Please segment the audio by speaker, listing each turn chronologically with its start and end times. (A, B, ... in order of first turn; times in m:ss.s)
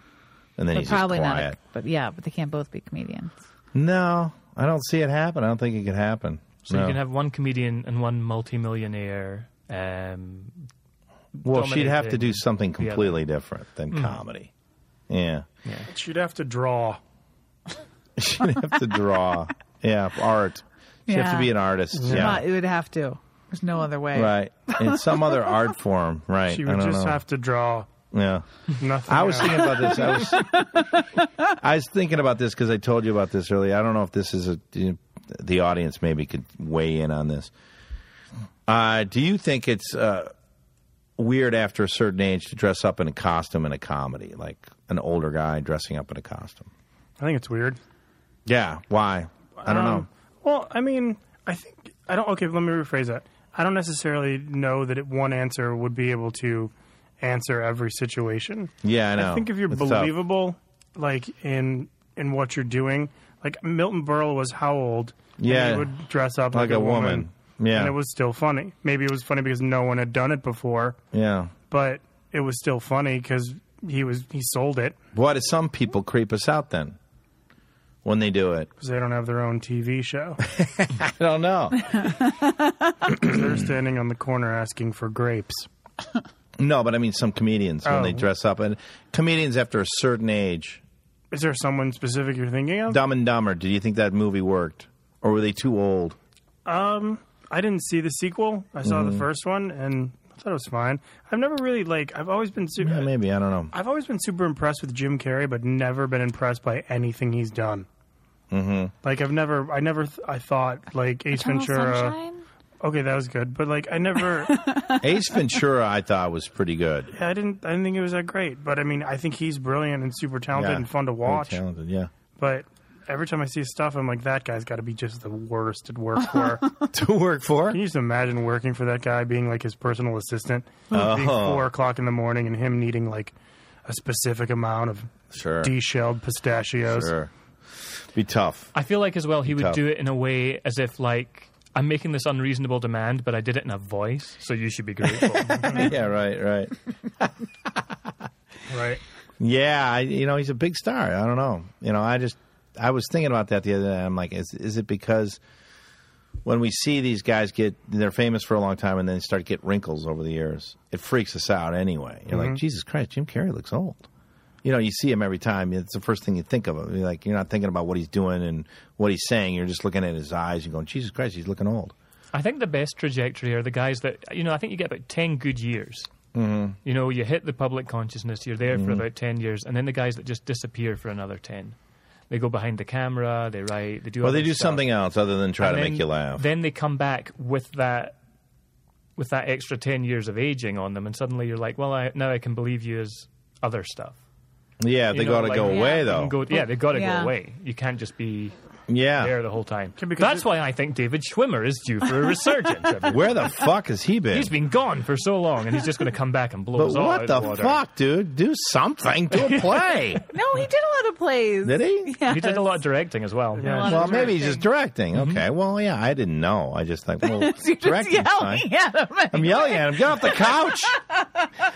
0:00.6-0:01.6 A
0:00.7-0:03.3 B
0:03.7-0:07.0 A
0:06.6-0:10.6 C
0:11.3-0:13.2 C
0:11.4-0:14.5 A
0:13.9-0:14.2 C
0:15.1-0:15.5 A
0:15.6-0:15.9 C
0:15.9-0:17.0 D
0:18.2-0:22.4 A
0:21.1-0:25.5 B
0:22.0-0:22.4 D
0:24.1-0:27.2 A
0:26.5-0:27.9 D
0:28.1-0:28.5 A
0:28.8-0:30.1 D
0:29.0-0:30.7 A
0:30.3-0:31.2 B
0:31.5-0:37.5 A
0:38.7-0:40.3 A
0:41.2-0:46.7 A
0:47.2-0:47.8 D
0:48.4-0:50.1 A
0:49.6-1:11.0 D
0:58.8-1:00.1 A
1:05.4-1:05.9 A
1:06.5-1:07.9 A
1:11.1-1:11.5 A
1:11.7-1:15.0 D
1:15.1-1:17.0 A
1:18.0-1:18.7 A
1:18.8-1:20.4 D
1:20.6-1:22.1 A
1:22.0-1:22.9 B
1:23.1-1:25.7 D
1:23.1-1:23.6 A
1:26.6-1:30.8 A
1:27.8-1:28.2 D
1:31.3-1:33.0 D
1:32.9-1:36.2 A
1:36.6-1:43.1 D
1:38.8-1:39.2 A
1:42.8-1:43.7 A
1:43.7-1:47.9 D
1:48.5-1:48.9 A
1:49.0-1:52.1 D
1:51.4-1:52.4 B
1:52.8-1:54.7 D
1:54.5-1:55.0 B
1:55.0-1:57.1 A
1:57.1-2:01.6 D
2:00.5-2:02.1 A
2:02.4-2:06.7 D
2:06.9-2:07.8 A
2:07.7-2:13.3 D
2:10.9-2:11.7 A
2:13.8-2:17.1 D
2:15.3-2:15.7 A
2:16.9-2:17.3 A
2:18.1-2:18.7 A
2:18.7-2:25.9 C
2:19.4-2:19.8 A
2:25.7-2:27.3 A
2:28.7-2:29.0 D
2:29.4-2:35.4 A
2:36.4-2:44.1 A
2:42.3-2:42.6 D
2:44.6-2:51.9 A
2:52.3-2:56.1 C
2:56.3-2:56.8 A
2:56.8-3:01.8 C
2:58.7-2:59.0 A
3:02.3-3:04.8 C
3:04.2-3:06.4 A
3:05.6-3:08.2 C
3:09.2-3:14.2 C
3:14.8-3:16.3 A
3:15.1-3:18.5 C
3:15.6-3:17.3 B
3:18.9-3:19.3 A
3:19.2-3:23.4 C
3:20.0-3:20.4 D
3:23.1-3:24.5 A
3:24.3-3:27.8 C
3:26.8-3:30.2 A
3:29.4-3:29.7 C
3:30.3-3:32.8 B
3:31.6-3:32.1 A
3:32.3-3:33.9 C
3:33.6-3:34.3 D
3:33.6-3:34.6 B
3:33.8-3:38.6 A
3:35.1-3:35.4 C
3:37.2-3:41.5 B
3:39.3-3:41.0 A